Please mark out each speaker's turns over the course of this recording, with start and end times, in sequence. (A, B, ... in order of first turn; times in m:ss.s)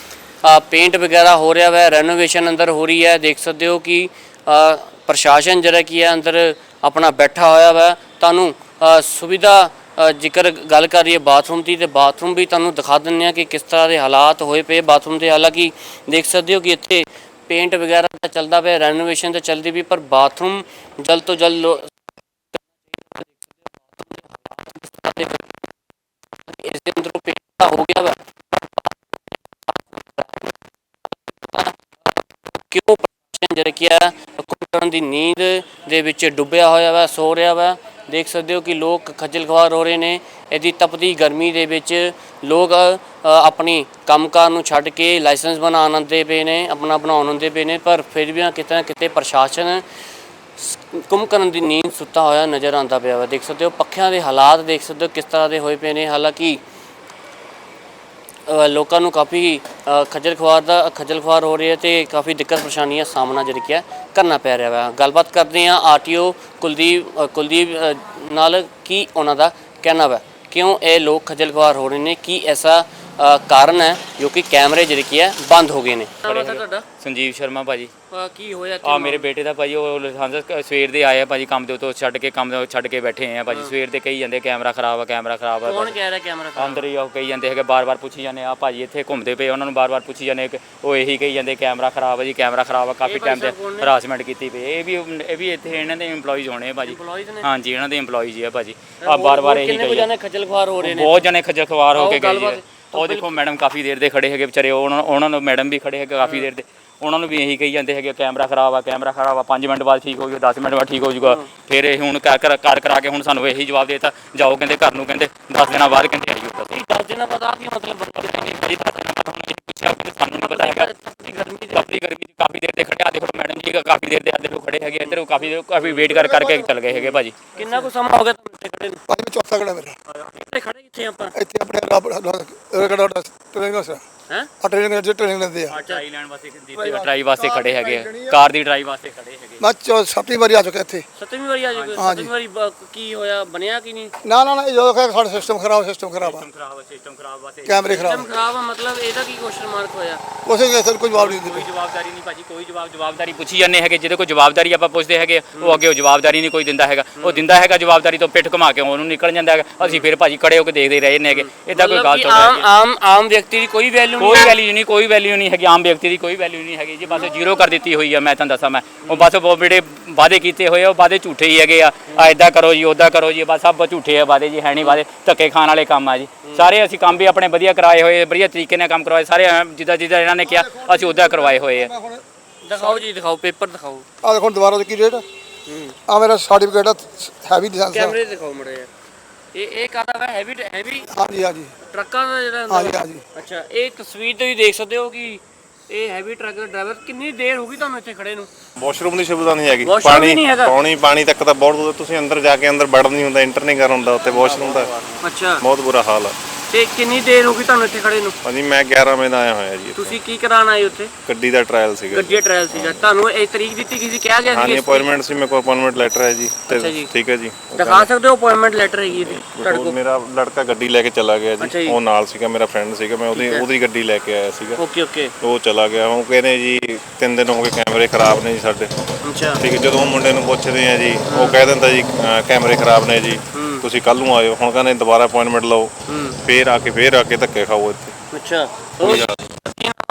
0:00.4-0:21.9 A
0:24.0-0:25.4 A
0:26.5-0:28.9 A
0:29.7-0:30.5 A
0:31.4-0:32.2 A
0:32.7-0:49.8 A
0:50.6-0:56.6 A
0:58.5-1:16.8 A
1:16.2-1:17.9 B
1:18.1-1:19.3 A
1:18.8-1:25.9 B
1:25.6-1:26.8 A
1:26.6-1:40.1 B
1:33.0-1:33.9 A
1:36.8-1:37.5 A
1:39.0-1:41.1 A
1:40.8-1:56.7 B
1:41.9-1:43.3 A
1:56.7-1:58.8 A
1:58.3-2:00.9 B
2:00.4-2:01.8 A
2:01.7-2:07.4 B
2:06.0-2:06.7 C
2:06.9-2:09.0 A
2:09.1-2:10.0 C
2:10.3-2:11.3 A
2:11.3-2:14.0 C
2:14.6-2:15.8 C
2:15.7-2:19.6 B
2:16.7-2:18.4 C
2:19.6-2:21.0 C
2:21.2-2:24.1 A
2:21.8-2:22.1 B
2:22.0-2:22.3 C
2:24.2-2:26.5 C
2:26.2-2:28.1 B
2:27.6-2:28.2 C
2:27.8-2:30.2 A
2:30.4-2:31.7 C
2:31.2-2:42.7 B
2:35.5-2:35.8 A
2:37.2-2:37.4 A
2:41.3-2:44.5 A
2:44.2-3:01.9 B
3:00.4-3:02.2 C
3:02.6-3:04.0 A
3:04.2-3:05.2 C
3:05.7-3:05.9 A
3:06.1-3:08.1 C
3:07.9-3:08.9 A
3:09.5-3:11.1 A
3:11.1-3:11.7 C
3:11.9-3:18.5 A
3:12.7-3:13.2 C
3:18.8-3:26.3 D
3:19.8-3:20.8 A
3:25.2-3:25.6 A
3:26.7-3:28.4 A
3:28.4-3:30.2 D
3:30.0-3:31.1 A
3:31.3-3:33.0 D
3:32.1-3:35.1 A
3:34.5-3:38.1 D
3:36.7-3:37.1 A
3:37.7-3:40.0 A
3:39.2-3:44.8 D
3:41.6-3:42.0 A
3:43.3-3:43.7 A
3:44.8-3:45.3 A
3:45.4-3:48.9 D
3:49.2-3:49.6 A
3:49.6-3:55.9 D
3:51.2-3:51.6 A
3:53.5-3:53.9 A
3:56.1-3:56.4 A
3:56.4-3:58.1 D
3:58.3-4:00.0 A
3:59.0-3:59.5 D